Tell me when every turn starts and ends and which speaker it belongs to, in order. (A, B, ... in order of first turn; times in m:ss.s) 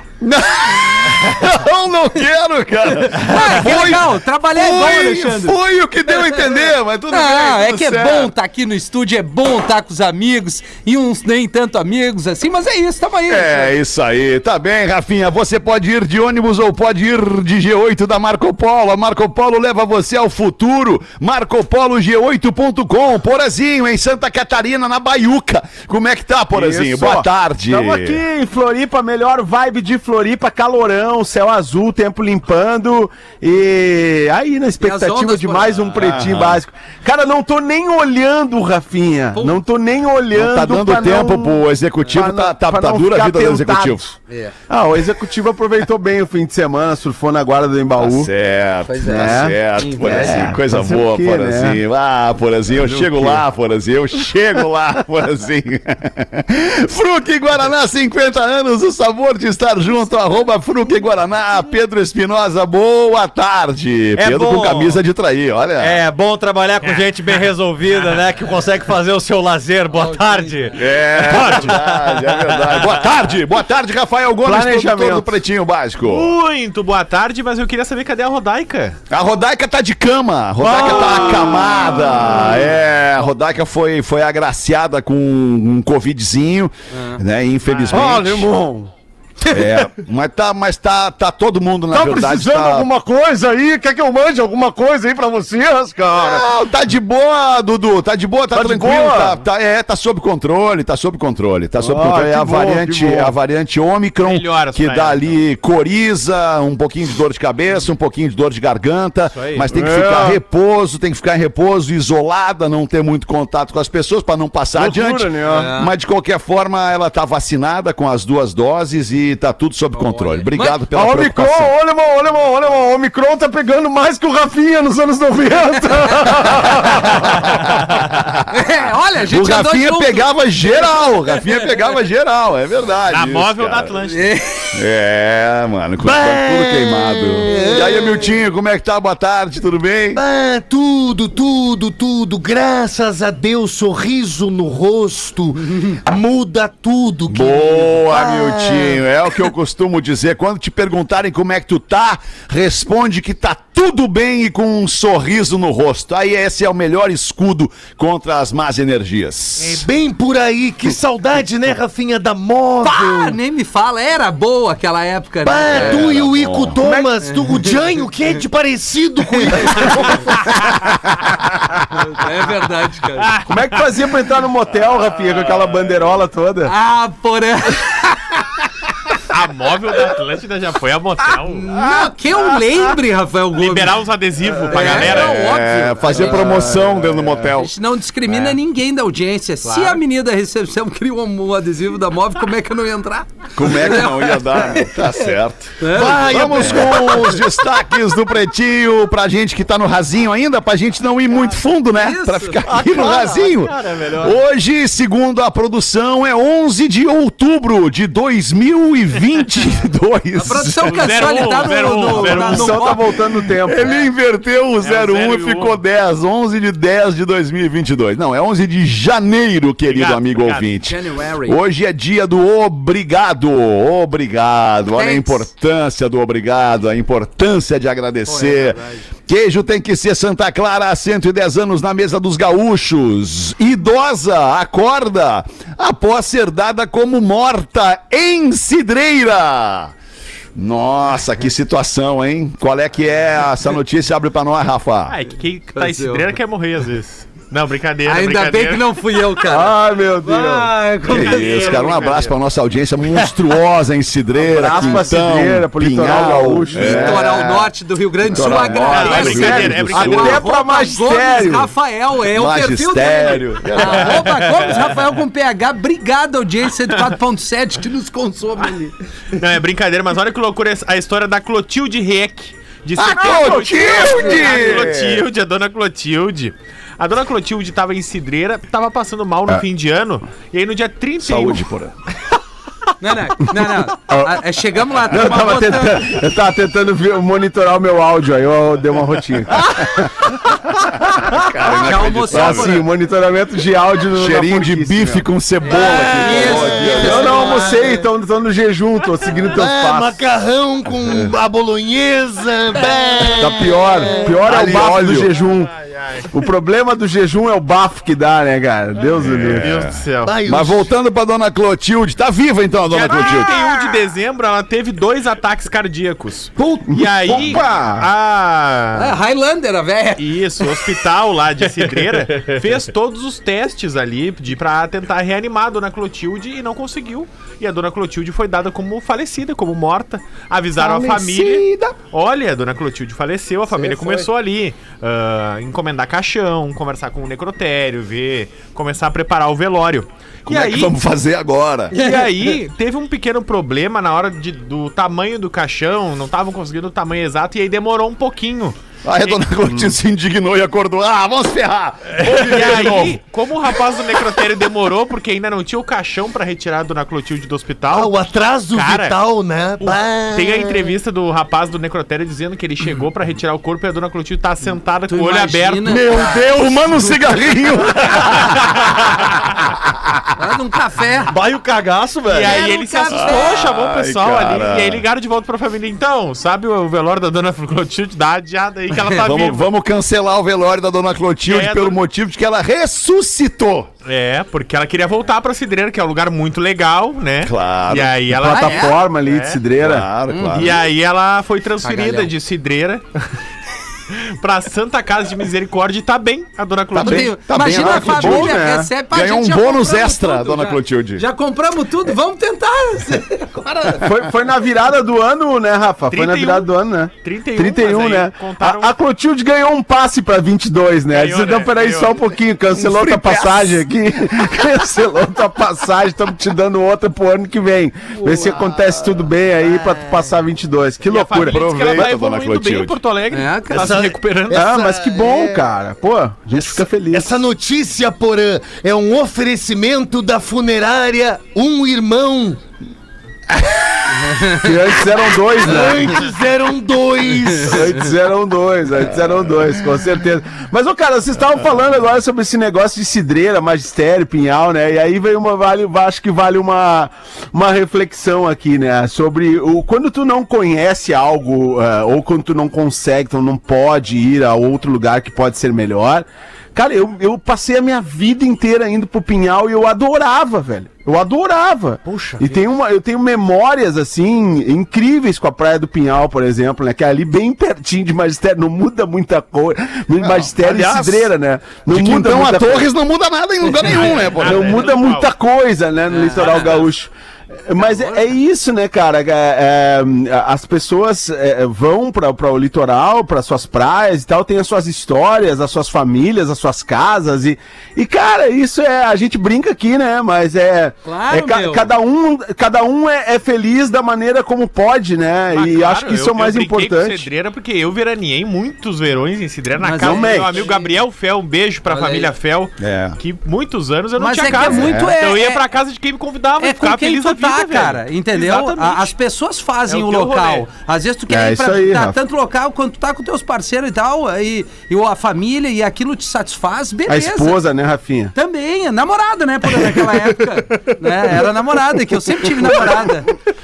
0:00.2-0:08.3 A
0:03.1-0:05.6 B
0:06.3-0:13.7 B
0:13.3-0:28.2 A
0:26.5-0:44.0 C
0:34.8-0:35.8 B
0:35.9-0:36.6 A
0:39.3-0:39.6 B
0:40.3-0:44.1 A
0:44.3-0:44.5 B
0:44.7-0:48.3 C
0:48.0-1:06.0 A
0:48.9-0:50.5 B
0:49.0-0:51.8 C
0:52.7-0:53.4 C
1:04.2-1:05.0 D
1:05.8-1:13.0 D
1:06.8-1:07.4 E
1:10.7-1:16.3 A
1:14.4-1:15.3 C
1:16.0-1:19.0 E
1:19.1-1:28.5 A
1:20.7-1:22.6 C
1:26.9-1:27.2 B
1:27.7-1:28.0 E
1:27.9-1:28.9 C
1:29.5-1:32.9 A
1:31.9-1:36.4 C
1:36.1-2:01.7 A
1:38.5-1:39.4 C
1:41.8-1:43.3 C
1:44.2-1:45.4 E
1:49.3-1:49.7 D
1:49.7-1:50.4 C
1:54.8-1:55.7 C
1:55.5-1:55.9 B
2:00.0-2:00.8 B
2:00.9-2:07.5 C
2:06.9-2:08.6 A
2:08.5-2:10.9 B
2:09.3-2:13.9 A
2:13.1-2:14.3 E
2:14.0-2:14.8 B
2:14.7-2:20.2 A
2:16.0-2:18.4 F
2:20.1-2:29.0 F
2:27.3-2:39.9 A
2:39.6-2:43.4 F
2:42.8-2:46.0 B
2:45.4-2:50.3 F
2:45.7-2:46.8 A
2:46.8-2:47.1 C
2:49.6-2:50.3 C
2:51.9-2:53.3 B
2:53.2-2:53.6 E
2:53.5-2:56.7 C
2:56.6-2:58.3 B
2:59.3-3:01.7 E
3:01.4-3:04.0 B
3:01.8-3:02.6 A
3:03.5-3:05.4 E
3:04.7-3:06.8 B
3:04.8-3:07.7 A
3:06.1-3:07.4 C
3:07.5-3:15.2 B
3:09.6-3:10.0 E
3:13.5-3:31.3 A
3:15.8-3:16.5 B
3:15.8-3:17.4 F
3:21.9-3:22.6 B
3:22.6-3:24.4 D
3:30.3-3:33.0 B
3:30.8-3:33.0 E
3:32.1-3:33.9 C
3:33.6-3:59.9 A
3:34.8-3:35.8 E
3:39.9-3:40.7 E
3:40.8-3:41.6 B
3:44.9-3:45.4 B
3:48.2-3:49.0 B
4:00.5-4:05.2 A
4:05.1-4:09.0 E
4:05.7-4:06.3 B
4:08.0-4:12.1 B
4:09.5-4:10.7 C
4:11.0-4:17.7 A
4:11.1-4:12.3 E
4:14.4-4:17.6 C
4:14.6-4:15.0 B
4:16.7-4:28.9 B
4:18.2-4:20.5 A
4:18.4-4:21.7 C
4:18.7-4:20.4 E
4:22.3-4:24.4 A
4:23.8-4:24.8 E
4:29.3-4:41.6 E
4:33.0-4:35.2 A
4:41.2-4:41.9 A
4:43.0-4:46.2 B
4:43.6-4:44.3 C
4:45.1-4:50.4 C
4:51.0-4:52.9 A
4:51.8-4:52.8 B
4:51.8-4:55.2 C
4:54.1-4:57.6 A
4:55.7-4:56.8 F
4:56.1-4:57.9 B
4:57.0-5:00.2 C
4:59.5-5:04.5 F
5:03.4-5:05.7 C
5:04.4-5:05.3 A
5:05.3-5:06.3 E
5:06.3-5:09.6 C
5:09.1-5:13.6 A
5:09.4-5:10.4 E
5:10.2-5:10.9 F
5:12.9-5:19.2 E
5:16.6-5:18.1 C
5:18.9-5:20.7 B
5:20.2-5:41.0 E
5:30.8-5:31.9 A
5:40.4-5:41.9 A
5:41.9-5:42.5 B
5:41.9-5:49.4 E
5:49.0-5:53.2 A
5:52.2-5:59.2 E
5:57.9-6:00.9 F
5:59.8-6:06.0 E
6:05.1-6:06.5 B
6:05.8-6:10.2 A
6:10.4-6:11.3 B
6:11.3-6:12.6 D
6:12.2-6:19.7 E
6:12.4-6:13.6 B
6:13.1-6:15.0 A
6:19.1-6:23.9 A
6:21.5-6:22.0 E
6:24.0-6:29.6 E
6:27.4-6:28.2 A
6:28.3-6:30.0 C
6:28.5-6:29.0 B
6:29.8-6:30.8 A
6:30.3-6:30.8 B
6:30.5-6:33.2 E
6:31.8-6:32.3 B
6:34.1-6:37.4 E
6:36.9-6:41.2 A
6:37.0-6:44.1 B
6:37.6-6:38.9 C
6:44.0-7:02.1 C
6:46.1-6:49.0 E
6:51.1-6:52.2 E
6:52.7-6:53.8 A
6:59.6-7:00.2 F
7:01.0-7:04.7 E
7:01.4-7:03.0 A
7:03.3-7:03.9 B
7:03.7-7:05.7 F
7:04.5-7:07.4 C
7:06.5-7:12.6 F
7:14.2-7:14.6 B
7:14.5-7:16.2 C
7:15.4-7:18.0 F
7:17.6-7:52.9 C
7:50.2-7:51.3 A
7:51.9-7:54.8 A
7:53.8-7:55.3 E
7:54.2-8:17.3 C
7:56.1-7:56.8 B
7:56.3-7:56.9 E
7:57.8-7:58.3 B
8:11.0-8:11.9 B
8:15.5-8:29.1 E
8:19.8-8:20.9 B
8:20.0-8:20.6 C
8:21.9-8:22.3 B
8:22.8-8:23.2 A
8:24.2-8:25.6 B
8:24.5-8:25.2 A
8:26.6-8:37.6 B
8:29.9-8:30.7 E
8:31.3-8:32.2 C
8:37.1-8:38.3 C
8:38.3-8:43.3 B